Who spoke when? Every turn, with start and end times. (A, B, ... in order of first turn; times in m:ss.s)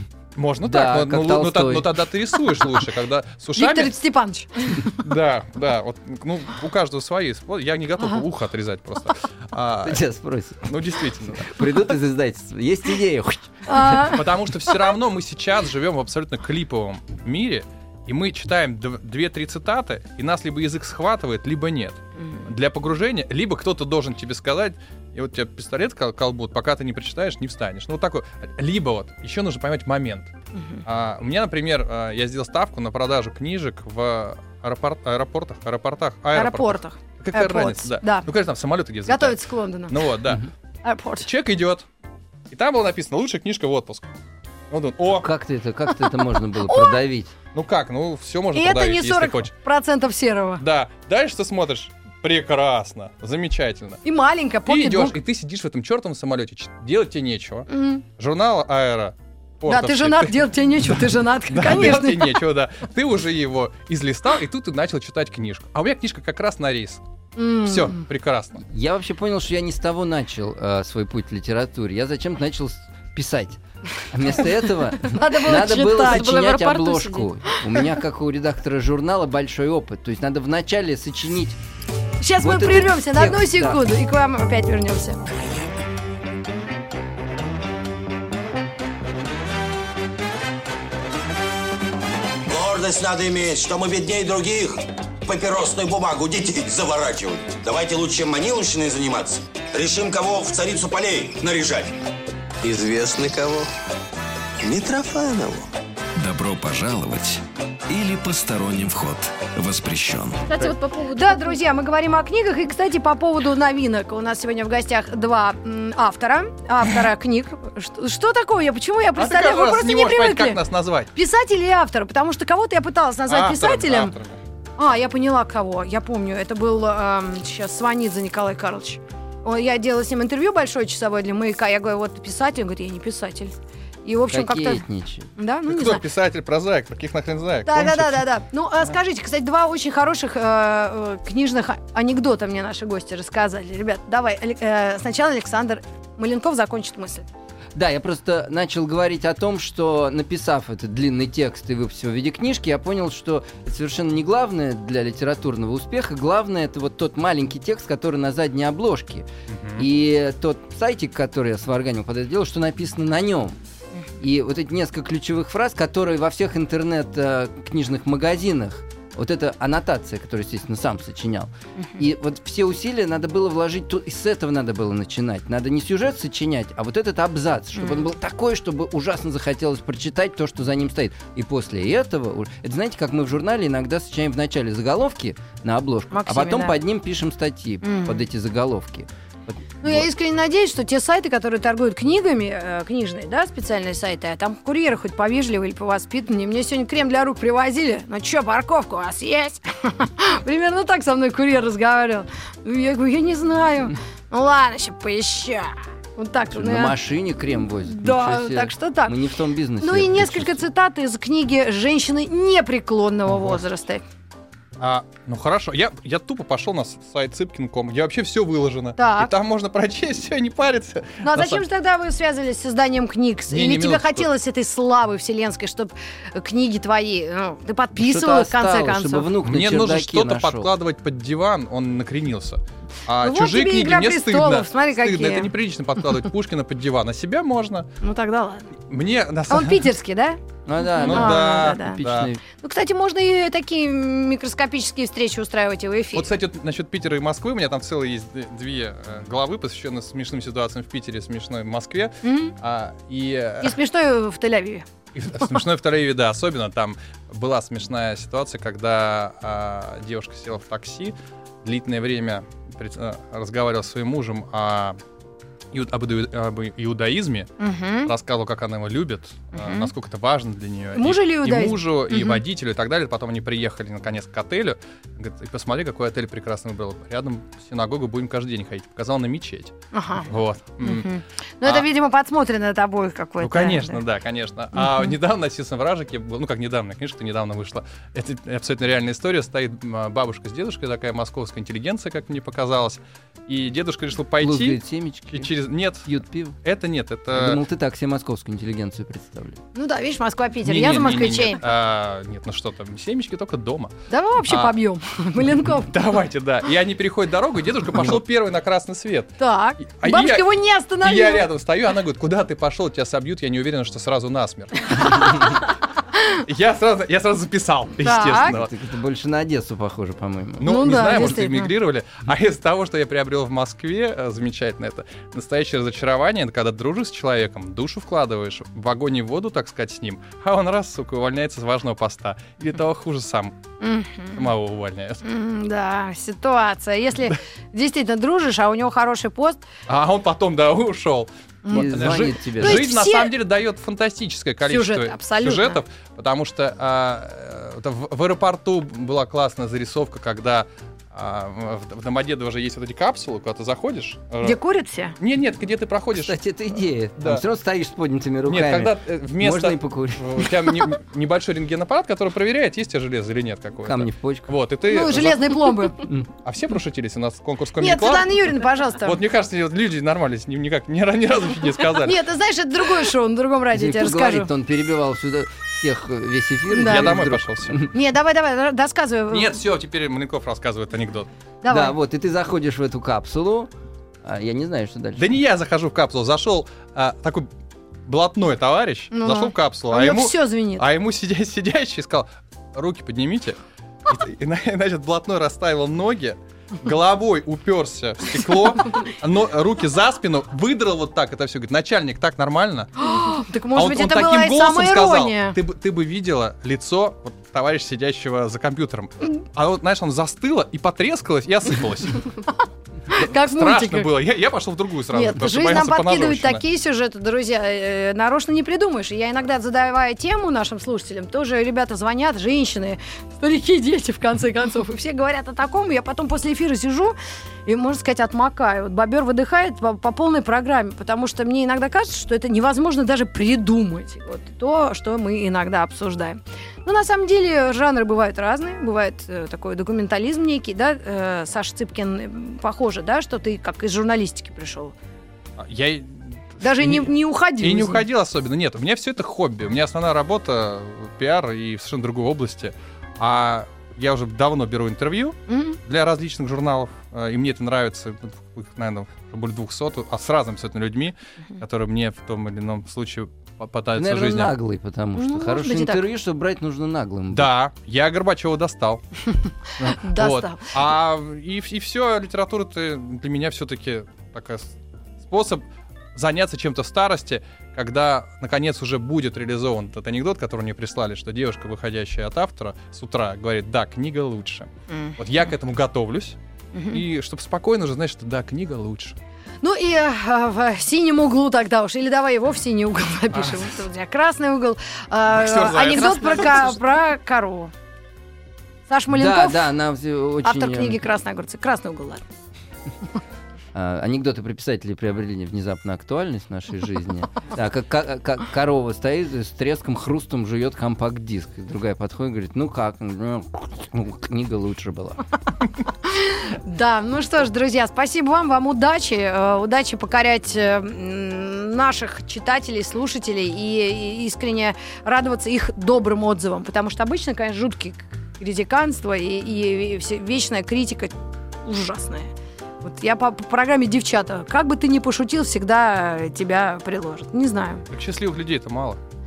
0:00.4-0:04.0 A
0:00.6-0:02.0 B
0:03.6-0:04.9 C
0:04.8-0:10.0 A
0:09.8-0:14.2 B
0:10.7-0:11.9 A
0:13.7-0:14.9 C
0:14.0-0:30.3 A
0:30.5-0:30.8 C
0:30.8-0:40.5 A
0:36.3-0:38.3 C
0:39.1-0:40.0 C
0:40.8-0:41.3 C
0:41.2-0:41.8 A
0:42.5-0:44.1 A
0:44.7-0:45.3 A
0:45.1-0:47.3 B
0:46.7-0:47.0 C
0:47.5-0:49.5 A
0:48.6-0:50.6 C
0:50.6-0:54.0 A
0:54.0-0:55.2 C
0:54.7-1:07.0 A
0:57.7-0:58.0 C
0:59.7-1:02.4 C
1:07.4-1:08.0 C
1:07.6-1:08.6 A
1:08.7-1:21.6 B
1:15.0-1:16.3 C
1:15.7-1:17.3 D
1:22.2-1:25.2 C
1:22.4-1:23.8 B
1:32.5-1:41.9 E
1:42.7-1:43.6 E
1:44.6-1:45.6 E
1:46.2-1:50.4 F
1:50.4-1:51.6 D
1:51.1-2:00.6 C
1:59.2-2:01.1 A
2:01.2-2:04.1 C
2:03.3-2:04.4 A
2:04.8-2:13.5 C
2:14.0-2:14.8 C
2:14.3-2:15.3 B
2:15.4-2:16.0 C
2:15.7-2:18.3 A
2:17.7-2:27.3 C
2:27.8-2:43.6 B
2:39.5-2:39.9 A
2:44.2-3:10.1 B
2:57.8-2:58.1 C
3:06.1-3:06.8 C
3:07.8-3:08.2 C
3:09.8-3:27.0 C
3:26.5-3:30.7 B
3:27.9-3:29.2 C
3:29.8-3:34.0 C
3:33.3-3:33.6 A
3:34.8-3:41.6 A
3:39.0-3:39.3 C
3:41.2-3:49.3 C
3:43.5-3:44.3 A
3:48.0-3:50.7 B
3:49.4-3:57.9 A
3:53.2-3:55.5 C
3:58.0-3:58.7 C
3:58.9-3:59.9 A
3:59.5-4:00.4 C
4:00.7-4:02.4 B
4:01.0-4:02.0 C
4:01.0-4:02.3 A
4:02.6-4:06.3 C
4:06.1-4:13.8 A
4:12.2-4:12.6 C
4:13.6-4:14.9 C
4:15.2-4:25.0 A
4:25.7-4:27.5 A
4:27.6-4:28.1 C
4:28.0-4:39.7 A
4:29.5-4:29.9 C
4:31.0-4:32.4 C
4:39.9-4:40.3 C
4:40.2-4:41.1 A
4:40.8-4:44.0 C
4:43.4-4:54.8 A
4:44.8-4:45.1 C
4:54.4-4:55.5 B
4:55.3-4:56.1 A
4:56.1-4:56.6 B
4:56.6-4:57.6 A
4:57.3-4:59.6 B
4:59.8-5:01.6 C
5:00.6-5:03.9 A
5:04.1-5:05.9 C
5:04.4-5:04.7 A
5:05.9-5:10.5 A
5:09.4-5:11.4 C
5:11.0-5:15.7 A
5:16.4-5:18.7 A
5:18.0-5:18.6 C
5:18.4-5:21.3 B
5:20.6-5:33.5 A
5:20.6-5:21.7 C
5:33.8-5:34.5 C
5:34.4-5:35.2 A
5:35.2-5:39.6 C
5:39.9-5:54.6 A
5:41.7-5:42.8 B
5:42.6-5:43.3 C
5:44.7-5:45.8 C
5:54.4-5:55.2 C
5:55.2-5:56.4 A
5:56.1-6:00.5 B
5:58.5-6:05.8 A
6:03.8-6:04.5 B
6:04.9-6:06.0 C
6:06.4-6:08.4 A
6:07.8-6:09.2 C
6:09.0-6:12.2 A
6:12.0-6:14.5 C
6:13.7-6:17.9 B
6:16.7-6:17.2 C
6:16.8-6:17.9 A
6:17.9-6:19.6 C
6:19.3-6:21.3 A
6:21.6-6:22.0 C
6:21.7-6:23.7 B
6:24.2-6:25.3 B
6:25.2-6:27.5 A
6:28.1-6:42.9 A
6:29.1-6:30.9 C
6:43.0-6:45.6 C
6:43.7-6:52.4 A
6:53.1-6:54.1 C
6:53.1-6:56.6 A
6:55.1-7:07.1 C
7:07.7-7:24.9 C
7:25.6-7:44.6 A
7:26.6-7:28.0 C
7:35.5-7:35.8 C
7:44.0-7:47.5 B
7:45.2-7:46.0 C
7:47.3-7:49.0 A
7:49.8-7:55.6 A
7:49.8-7:50.6 C
7:56.2-8:06.4 A
8:04.9-8:05.2 C
8:06.8-8:07.0 C
8:06.9-8:09.2 A
8:09.6-8:17.7 C
8:13.3-8:13.7 A
8:15.3-8:16.8 A
8:18.9-8:19.7 C
8:19.1-8:21.0 B
8:20.4-8:22.3 C
8:23.7-8:35.2 B
8:36.0-8:52.3 C
8:52.8-8:57.8 C
8:57.9-8:59.0 A